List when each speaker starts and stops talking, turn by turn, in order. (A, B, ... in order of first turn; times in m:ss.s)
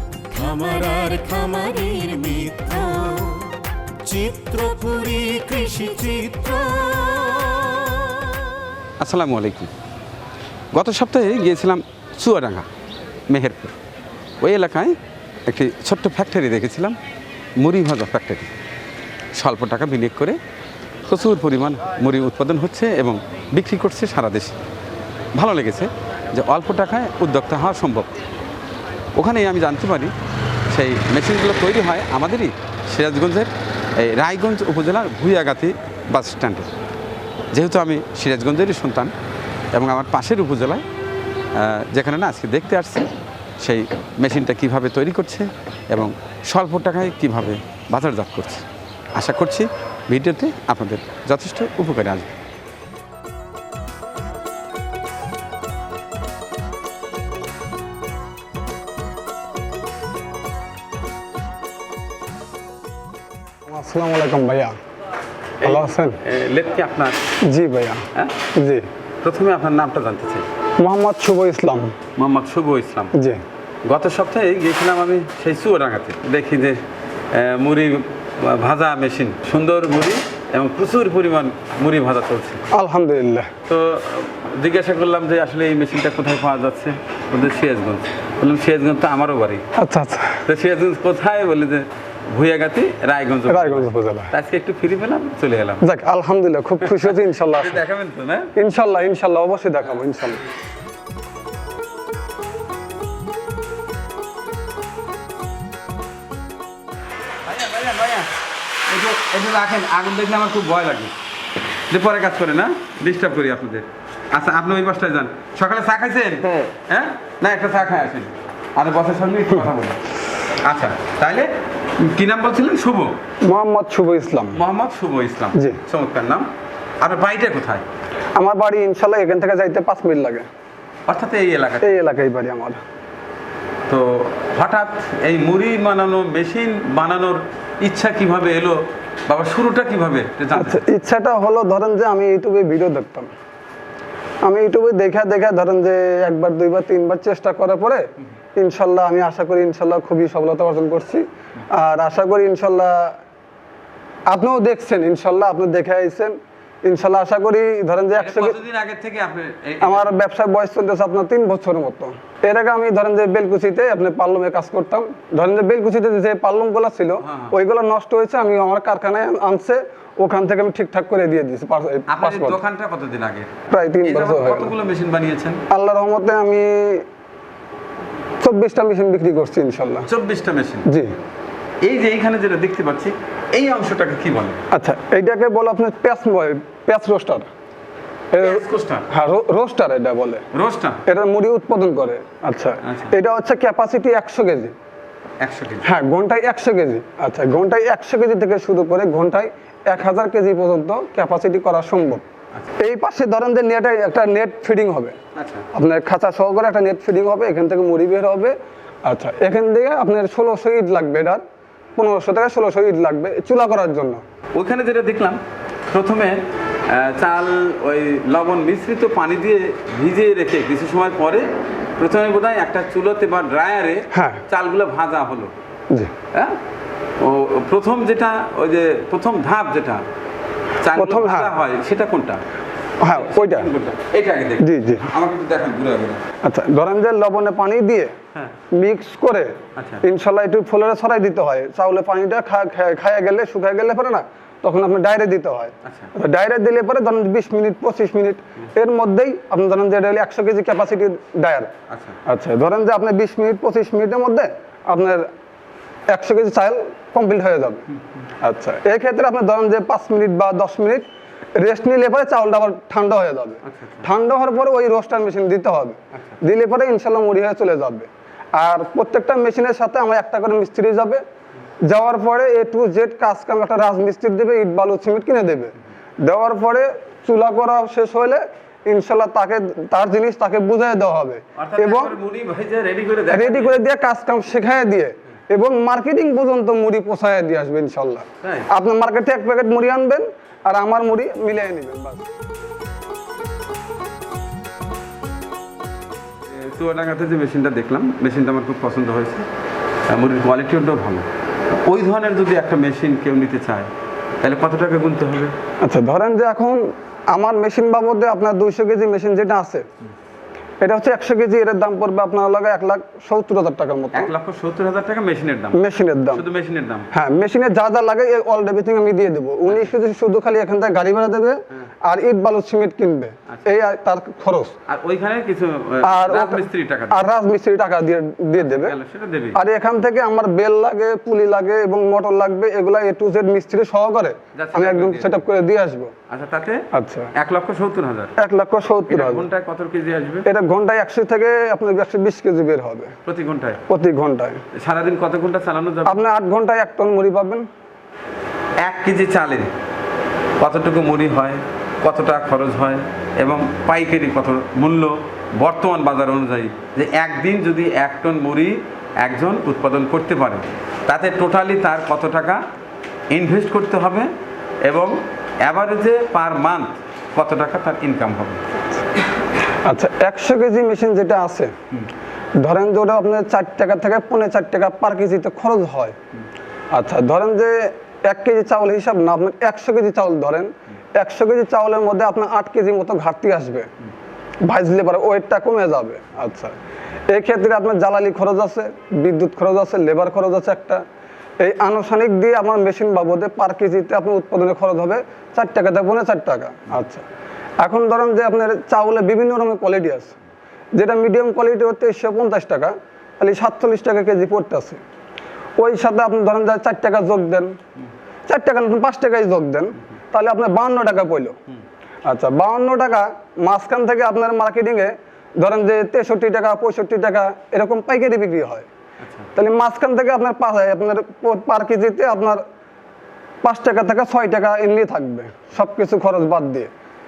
0:00.3-0:08.4 A
0:09.0-0:09.7 B
0:10.7-0:12.7 B
0:13.3-0:13.8 B
0:14.4-0:15.0 B
0:15.5-0:17.0 B
0:17.6-0:18.5 B
0:19.3-0:20.4 B
0:21.0-0:24.6 B
0:25.3-0:28.1 B
0:29.1-0:30.1 B
0:30.7-0:36.7 B
0:37.5-0:39.1 B
0:39.7-0:40.8 B
0:41.5-0:52.3 B
1:03.7-1:04.8 C
1:05.6-1:07.2 B
1:05.6-1:06.2 C
1:07.5-1:08.0 C
1:08.1-1:08.4 B
1:08.6-1:08.9 C
1:09.2-1:10.4 B
1:10.8-1:11.9 C
1:12.2-1:13.1 B
1:13.1-1:13.4 C
1:13.8-1:22.7 B
1:22.7-1:23.5 C
1:23.7-1:29.6 B
1:29.8-1:30.4 C
1:30.4-1:35.9 B
1:33.5-1:34.3 C
1:35.8-1:37.8 C
1:36.8-1:38.5 B
1:38.6-1:40.4 C
1:47.4-1:51.1 B
1:51.9-2:03.2 B
2:03.4-2:04.6 C
2:04.5-2:06.5 B
2:05.5-2:05.8 C
2:07.0-2:07.9 B
2:08.4-2:10.5 C
2:11.1-2:12.0 B
2:11.8-2:12.8 C
2:13.9-2:20.8 B
2:20.5-2:23.3 C
2:24.4-2:33.2 C
2:34.3-2:38.6 C
2:38.2-2:40.2 B
2:39.8-2:52.6 C
2:47.2-2:47.6 B
2:52.1-2:55.6 B
2:53.7-2:54.7 C
2:55.7-2:57.0 C
2:58.4-3:00.1 C
3:00.0-3:00.9 B
3:00.9-3:01.1 C
3:01.8-3:04.6 B
3:04.7-3:07.5 C
3:08.3-3:10.4 C
3:08.4-3:09.1 B
3:10.5-3:11.0 B
3:11.1-3:14.8 C
3:12.8-3:13.2 B
3:15.4-3:15.9 B
3:15.8-3:22.2 C
3:22.8-3:25.2 C
3:25.3-3:25.7 B
3:25.7-3:31.4 C
3:32.0-3:34.2 C
3:34.5-3:35.4 B
3:35.9-3:41.5 B
3:42.0-3:45.5 B
3:44.1-3:44.4 C
3:46.3-3:46.6 B
3:47.2-3:50.0 B
3:50.8-3:52.4 B
3:50.9-3:51.6 C
3:53.0-3:53.7 C
3:53.1-3:56.3 B
3:54.6-3:55.1 C
3:56.4-3:58.1 C
3:58.7-4:11.7 C
3:59.8-4:00.0 B
4:05.8-4:06.1 B
4:11.9-4:12.2 B
4:12.2-4:15.3 C
4:16.1-4:17.9 C
4:18.4-4:31.2 C
4:23.6-4:24.1 B
4:26.1-4:26.4 B
4:31.9-4:42.2 C
4:41.6-4:43.8 B
4:43.3-4:52.3 C
4:48.4-4:48.7 B
4:56.4-4:59.4 B
5:00.1-5:01.3 B
5:01.8-5:05.6 B
5:05.8-5:09.9 C
5:10.8-5:14.3 C
5:14.1-5:17.1 B
5:15.7-5:16.4 C
5:17.1-5:24.7 C
5:19.7-5:19.9 B
5:23.5-5:23.8 B
5:24.9-5:27.2 B
5:26.0-5:28.9 C
5:28.6-5:29.6 B
5:29.5-5:36.1 C
5:34.5-5:35.5 B
5:36.3-5:38.4 B
5:36.9-5:37.3 C
5:38.4-5:39.5 C
5:39.1-5:40.5 B
5:40.4-5:43.1 C
5:43.2-5:43.8 B
5:43.9-5:44.6 C
5:44.7-5:46.2 B
5:46.0-5:47.6 C
5:48.8-5:49.7 B
5:50.6-6:02.6 B
6:03.3-6:04.3 B
6:04.8-6:08.6 B
6:09.8-6:11.7 C
6:12.6-6:16.2 C
6:16.9-6:23.9 C
6:24.6-6:26.8 C
6:27.3-6:31.0 C
6:31.6-6:37.2 C
6:37.8-6:40.4 C
6:40.9-6:45.0 C
6:45.8-6:47.7 C
6:48.5-6:51.6 C
6:52.2-6:58.9 C
6:59.2-6:59.5 B
6:59.6-7:02.6 C
7:03.6-7:06.9 C